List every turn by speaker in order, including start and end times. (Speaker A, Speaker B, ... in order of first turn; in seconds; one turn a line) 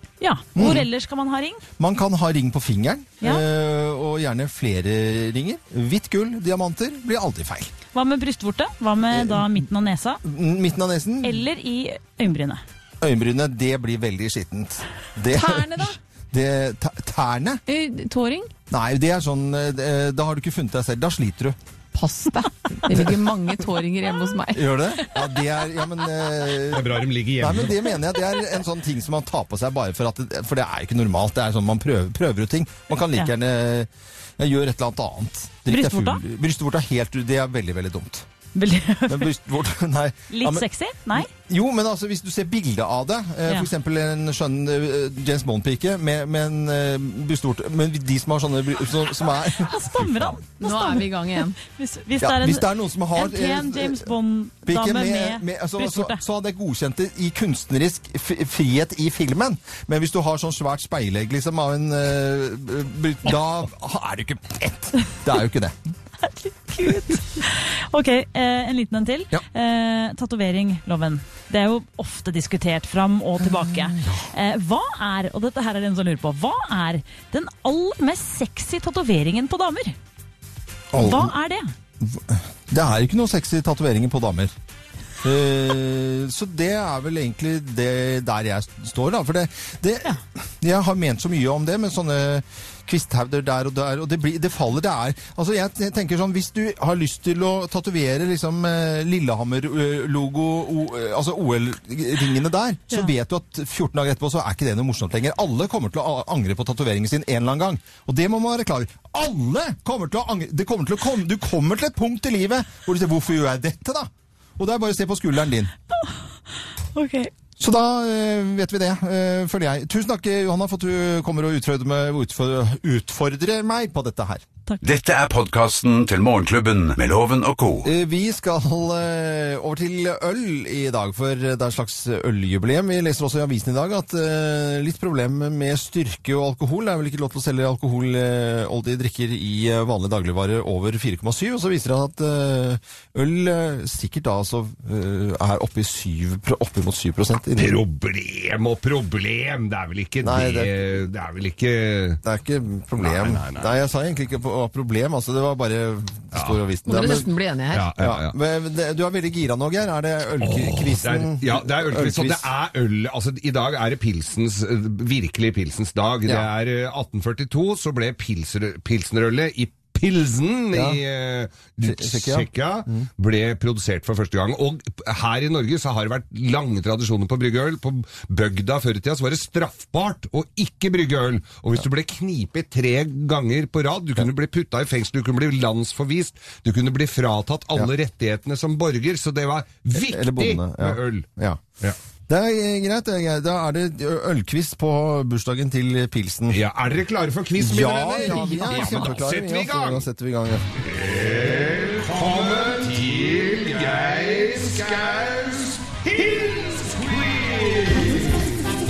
Speaker A: 0.2-1.6
Speaker B: 0.6-0.9
Speaker B: 1.8-7.7
Speaker A: 7.9-10.2
Speaker B: 9.1-9.7
Speaker B: 10.2-11.5
Speaker A: 11.2-12.6
Speaker B: 13.0-17.6
Speaker C: 15.3-16.0
Speaker C: 17.7-18.5
Speaker B: 18.7-21.6
Speaker C: 21.9-25.2
Speaker B: 22.9-23.2
Speaker B: 24.5-38.2
Speaker D: 26.7-28.0
Speaker A: 35.7-36.2
Speaker A: 38.5-39.3
Speaker B: 39.1-50.4
Speaker A: 40.3-41.3
Speaker A: 49.6-56.2
Speaker C: 50.6-51.6
Speaker B: 52.2-54.1
Speaker B: 54.6-65.8
Speaker A: 66.2-80.0
Speaker B: 73.4-74.3
Speaker B: 80.9-81.4
Speaker A: 81.0-81.7
Speaker B: 82.0-84.5
Speaker B: 85.2-115.7
Speaker A: 116.9-117.3
Speaker B: 117.6-124.5
Speaker E: 124.8-127.9
Speaker B: 127.8-147.8
Speaker D: 147.6-152.2
Speaker B: 150.2-150.8
Speaker B: 152.2-157.3
Speaker D: 153.0-153.7
Speaker D: 156.3-156.6
Speaker C: 156.9-157.9
Speaker D: 157.7-158.3
Speaker B: 158.0-162.5
Speaker D: 160.4-191.2
Speaker B: 170.7-171.0
Speaker B: 171.8-173.1
Speaker B: 189.9-191.6
Speaker B: 192.3-196.6
Speaker D: 196.5-200.1
Speaker B: 197.6-200.7
Speaker C: 198.6-199.0
Speaker D: 200.8-208.6